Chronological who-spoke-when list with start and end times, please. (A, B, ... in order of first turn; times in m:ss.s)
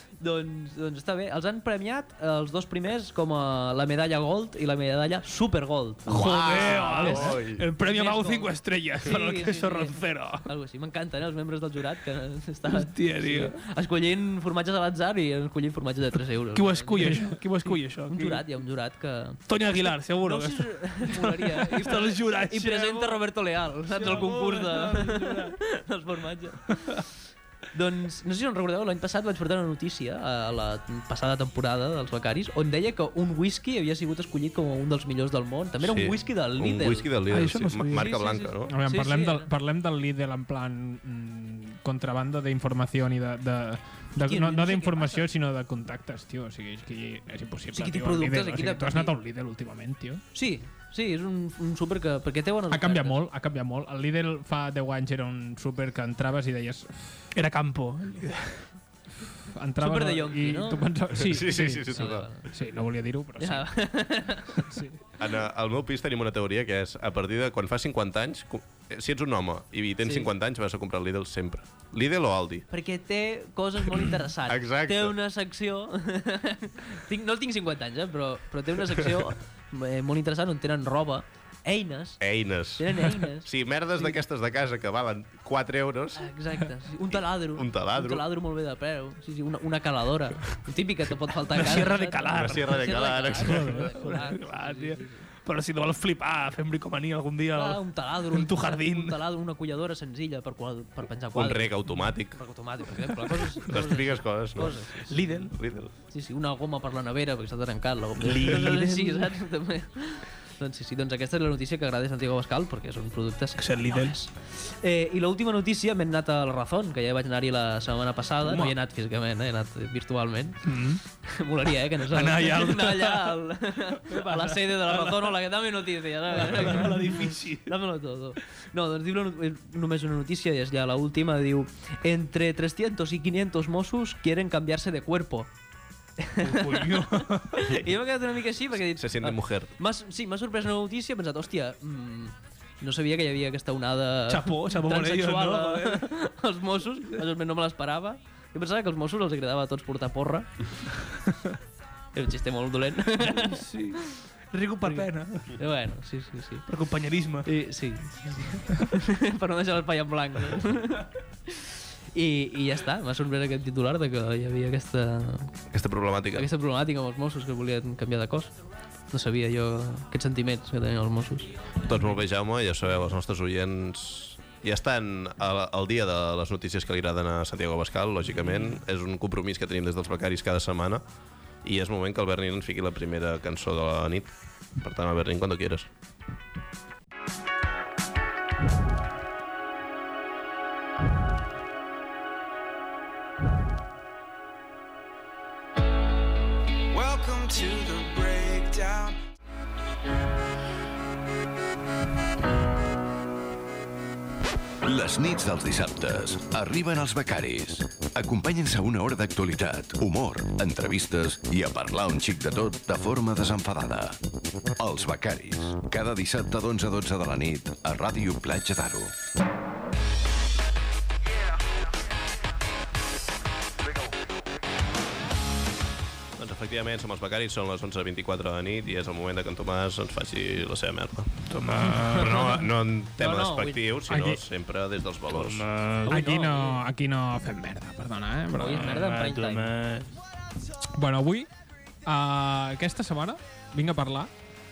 0:00.2-0:19.4 A
0:06.1-0:10.5 B
0:06.1-0:07.6 C
0:12.7-0:13.6 B
0:16.5-0:18.4 B
0:17.0-0:17.3 D
0:19.5-0:23.2 B
0:20.2-0:27.0 A
0:23.9-0:25.6 B
0:27.7-0:37.1 A
0:35.8-0:38.7 C
0:37.3-0:38.1 B
0:37.9-0:39.5 A
0:38.7-0:50.2 D
0:44.2-0:45.2 A
0:47.7-0:49.1 A
0:50.3-0:53.2 A
0:52.7-0:57.2 D
0:57.3-0:58.6 B
0:59.5-1:03.9 D
0:59.8-1:02.5 A
1:01.1-1:02.3 C
1:03.4-1:04.8 A
1:04.5-1:05.0 D
1:05.2-1:12.6 C
1:10.0-1:10.3 A
1:12.7-1:22.2 A
1:14.4-1:15.2 C
1:22.2-1:26.3 C
1:22.7-1:24.2 A
1:26.1-1:35.3 A
1:27.1-1:28.2 C
1:31.5-1:32.8 B
1:32.3-1:33.8 C
1:33.5-1:33.8 D
1:33.5-1:39.2 B
1:37.5-1:45.5 A
1:41.3-1:42.4 C
1:43.6-1:44.8 C
1:45.1-1:45.5 B
1:45.5-1:45.9 C
1:46.1-2:15.5 A
1:48.2-1:49.3 B
1:53.6-1:54.1 B
1:58.4-1:58.7 B
2:00.6-2:01.0 B
2:02.1-2:03.4 B
2:04.0-2:05.4 B
2:06.3-2:07.7 B
2:16.2-2:30.7 A
2:16.4-2:17.8 B
2:18.7-2:19.7 C
2:24.3-2:26.1 B
2:32.1-2:34.2 A
2:33.2-2:35.6 B
2:34.8-2:36.6 A
2:36.7-2:37.5 B
2:37.4-2:45.6 A
2:45.7-2:46.5 C
2:46.3-2:48.5 A
2:49.1-2:51.5 A
2:51.8-3:01.0 C
3:01.6-3:05.9 C
3:16.9-3:19.2 E
3:24.8-3:34.2 F
3:34.8-3:39.1 F
3:46.4-3:55.7 C
3:51.5-3:52.6 B
3:52.1-3:52.6 A
3:53.2-3:53.9 A
3:54.1-3:54.4 D
3:55.3-3:56.2 B
3:56.1-3:56.8 A
3:56.1-3:59.0 D
3:58.5-3:59.7 A
3:58.8-4:00.1 B
4:00.9-4:01.5 D
4:02.0-4:04.3 D